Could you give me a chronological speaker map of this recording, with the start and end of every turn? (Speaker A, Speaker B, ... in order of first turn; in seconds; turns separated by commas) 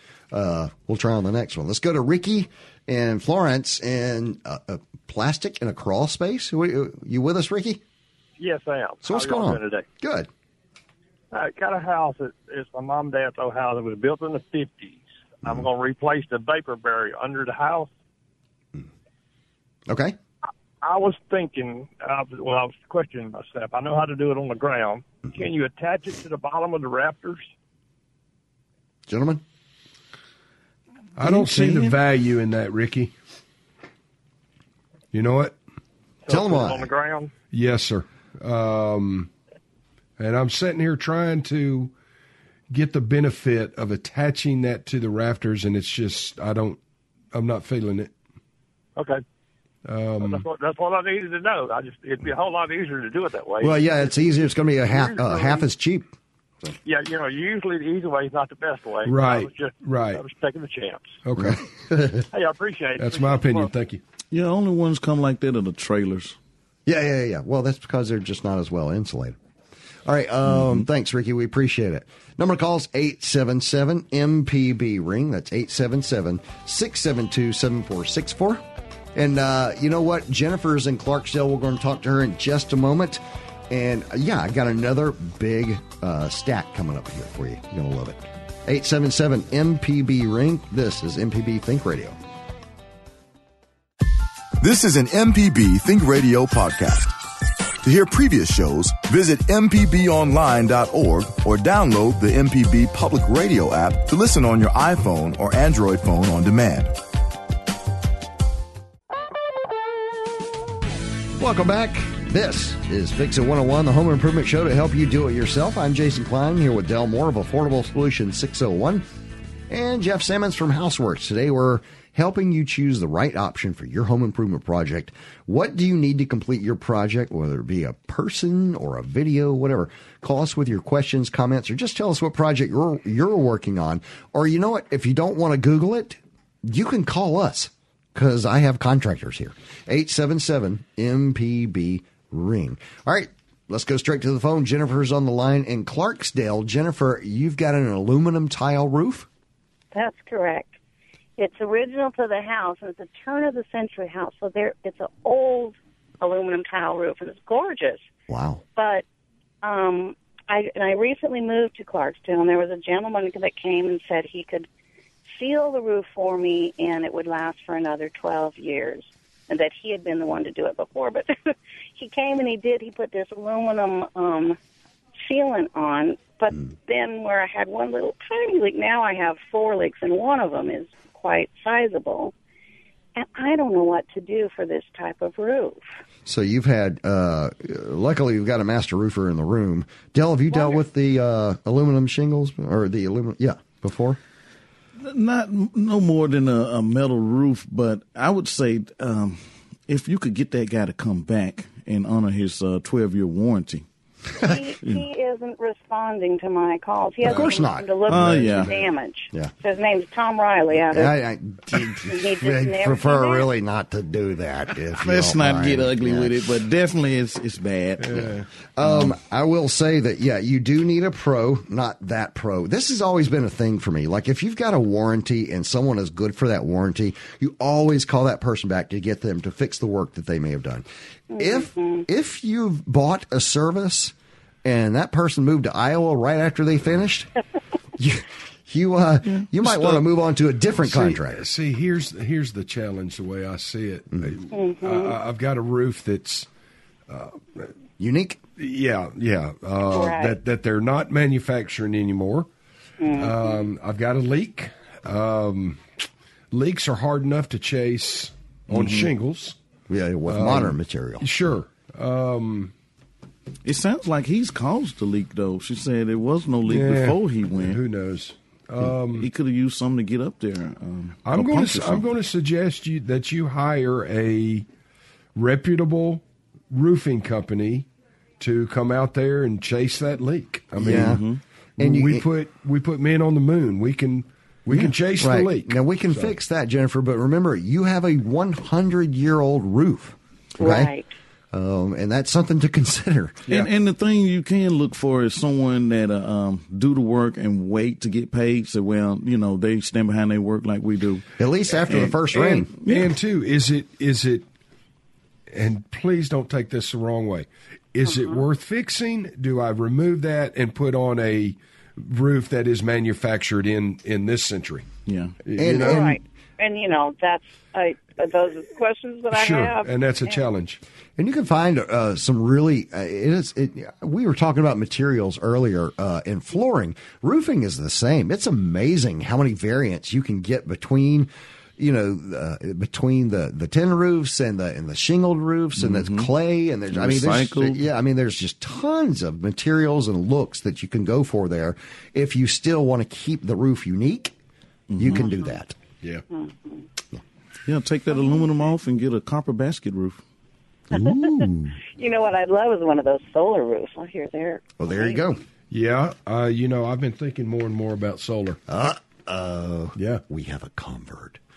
Speaker A: 0.3-7.8, Speaker B: 8.4-9.8, Speaker A: 9.0-10.3, Speaker B: 11.3-17.9, Speaker A: 19.9-20.1, Speaker B: 20.8-27.5, Speaker A: 29.1-29.4, Speaker C: 31.2-33.1, Speaker D: 31.2-32.0, Speaker C: 35.1-35.5, Speaker B: 36.2-37.3, Speaker A: 36.3-36.9, Speaker C: 37.5-39.3, Speaker C: 40.2-41.9, Speaker C: 42.7-46.8, Speaker C: 47.3-48.1, Speaker B: 49.0-49.2, Speaker C: 49.8-50.4, Speaker B: 50.2-53.8, Speaker A: 53.6-56.1, Speaker B: 54.9-55.6, Speaker B: 56.8-61.2, Speaker C: 59.0-60.2, Speaker C: 61.2-61.6, Speaker A: 61.4-62.2, Speaker B: 62.3-63.7, Speaker C: 63.0-64.0, Speaker D: 64.3-66.4, Speaker A: 66.9-69.4, Speaker A: 70.0-78.6, Speaker D: 70.5-70.8, Speaker A: 79.1-92.2, Speaker E: 94.6-97.1, Speaker E: 97.8-106.9, Speaker A: 111.4-119.0, Speaker A: 119.7-149.3, Speaker F: 149.9-150.8, Speaker F: 151.4-158.1, Speaker A: 158.3-158.6, Speaker F: 158.8-159.0, Speaker F: 159.6-164.7, Speaker F: 165.3-174.6, Speaker F: 175.2-182.3, Speaker F: 183.2-185.8, Speaker A: 186.2-194.2, Speaker D: 195.0-203.8, Speaker F: 204.4-211.1, Speaker A: 207.2-208.8, Speaker D: 208.1-208.8, Speaker A: 210.9-216.4, Speaker F: 212.0-213.5, Speaker D: 214.9-218.3, Speaker C: 218.0-218.5, Speaker A: 218.1-230.8, Speaker D: 218.8-219.1, Speaker F: 231.3-232.1, Speaker A: 231.4-237.3, Speaker A: 238.0-241.4, Speaker D: 239.2-239.8, Speaker C: 240.8-246.5, Speaker F: 244.5-245.2, Speaker C: 247.1-247.7, Speaker A: 248.0-248.4, Speaker C: 248.6-252.5, Speaker F: 249.9-250.4, Speaker F: 253.0-253.6, Speaker C: 253.1-255.8, Speaker C: 256.5-259.6, Speaker D: 258.7-259.1, Speaker A: 259.9-261.3, Speaker C: 260.3-262.7, Speaker D: 263.6-267.8, Speaker C: 266.6-269.3, Speaker D: 269.1-272.1, Speaker C: 271.2-274.6, Speaker C: 275.3-277.9, Speaker C: 278.4-281.2, Speaker D: 280.8-281.4, Speaker A: 280.8-281.2, Speaker C: 281.8-286.3, Speaker A: 281.8-282.2, Speaker A: 284.7-290.9, Speaker F: 290.6-291.1, Speaker A: 291.5-293.4, Speaker D: 293.5-301.2, Speaker A: 301.4-302.7, Speaker D: 301.9-302.2, Speaker C: 302.1-304.4, Speaker D: 302.8-303.1, Speaker C: 305.5-314.9, Speaker F: 308.1-308.4, Speaker D: 315.1-315.4, Speaker C: 315.4-316.1, Speaker A: 315.6-316.2, Speaker F: 315.7-320.4, Speaker C: 319.3-320.8, Speaker A: 321.2-344.3, Speaker D: 335.8-336.3, Speaker D: 336.9-337.8, Speaker D: 344.9-345.2, Speaker A: 345.0-345.7, Speaker F: 345.1-345.6, Speaker F: 346.3-346.9, Speaker D: 347.6-350.2, Speaker A: 350.9-351.7, Speaker F: 350.9-355.2, Speaker A: 354.8-355.4, Speaker C: 355.7-358.6, Speaker A: 358.7-361.4